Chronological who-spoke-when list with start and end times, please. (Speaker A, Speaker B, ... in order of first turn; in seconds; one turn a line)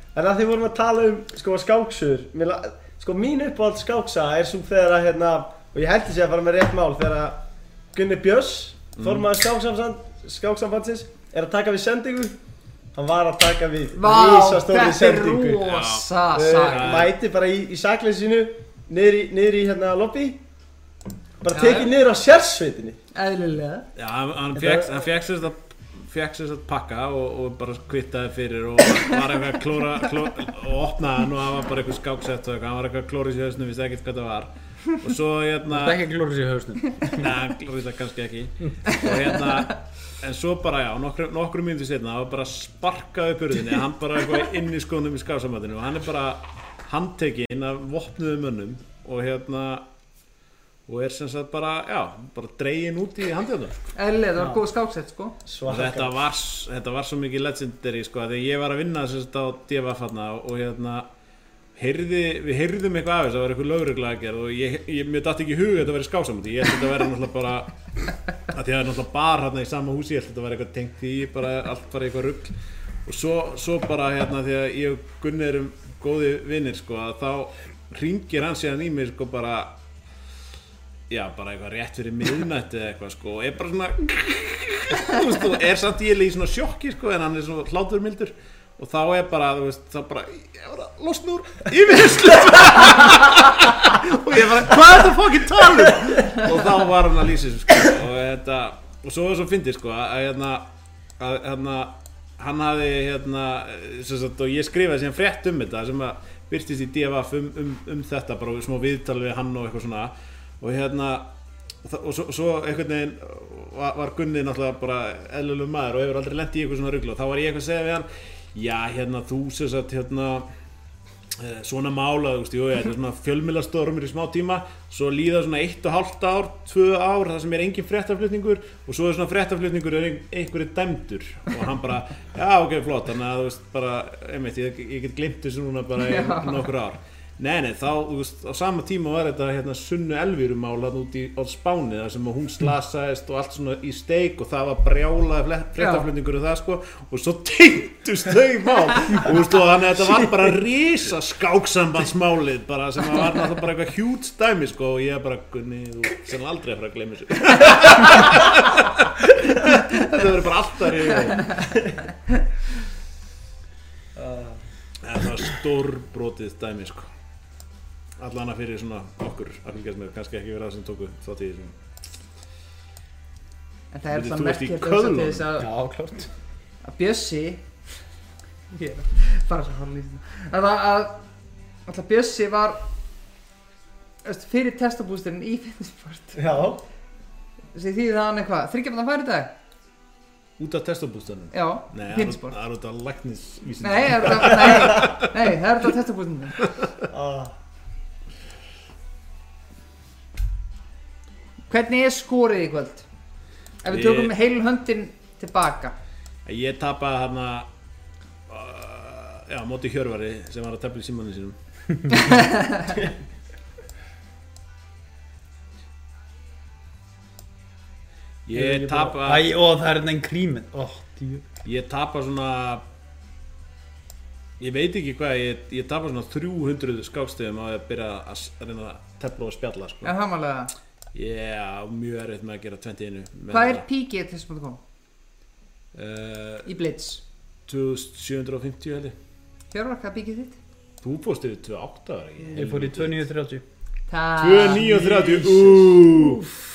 Speaker A: 0.1-12.4
Speaker B: 9.0-9.2
Speaker A: 12.9-15.7
Speaker C: 13.9-17.0
Speaker B: 15.6-17.1
Speaker A: 16.3-20.4
Speaker A: 21.4-23.0
Speaker C: 21.5-21.9
Speaker C: 23.1-23.9
Speaker B: 23.9-36.0
Speaker D: 35.7-37.2
Speaker B: 37.1-49.8
Speaker B: 50.9-53.8
Speaker C: 54.0-55.4
Speaker A: 55.5-56.1
Speaker B: 55.7-61.1
Speaker B: 61.8-67.7
Speaker B: 68.5-72.5
Speaker B: 73.0-79.7
Speaker B: 81.1-100.6
Speaker B: 101.2-111.3
Speaker B: 111.8-120.5
Speaker B: 121.4-161.8
Speaker C: 136.0-136.7
Speaker C: 145.8-146.1
Speaker D: 164.2-164.5
Speaker B: 165.0-167.1
Speaker B: 168.2-171.7
Speaker C: 173.9-175.7
Speaker B: 174.1-175.5
Speaker D: 175.6-176.3
Speaker C: 176.8-177.7
Speaker C: 178.7-181.2
Speaker C: 181.9-182.8
Speaker C: 184.2-186.5
Speaker A: 186.3-186.8
Speaker C: 187.7-189.5
Speaker B: 190.6-195.2
Speaker C: 191.5-192.6
Speaker C: 193.8-196.7
Speaker A: 197.1-197.5
Speaker C: 201.7-203.0
Speaker C: 203.8-205.9
Speaker B: 203.9-204.3
Speaker B: 206.4-207.7
Speaker B: 208.5-211.6
Speaker C: 212.1-213.0
Speaker B: 218.4-219.5
Speaker D: 218.5-221.4
Speaker B: 221.6-222.8
Speaker B: 224.6-230.1
Speaker C: 230.0-230.7
Speaker B: 231.1-233.8
Speaker C: 233.5-234.8
Speaker B: 235.9-236.7
Speaker C: 236.7-237.2
Speaker B: 237.7-239.1
Speaker C: 239.7-240.6
Speaker B: 241.0-243.2
Speaker D: 242.4-243.6
Speaker C: 244.1-246.4
Speaker B: 244.4-246.4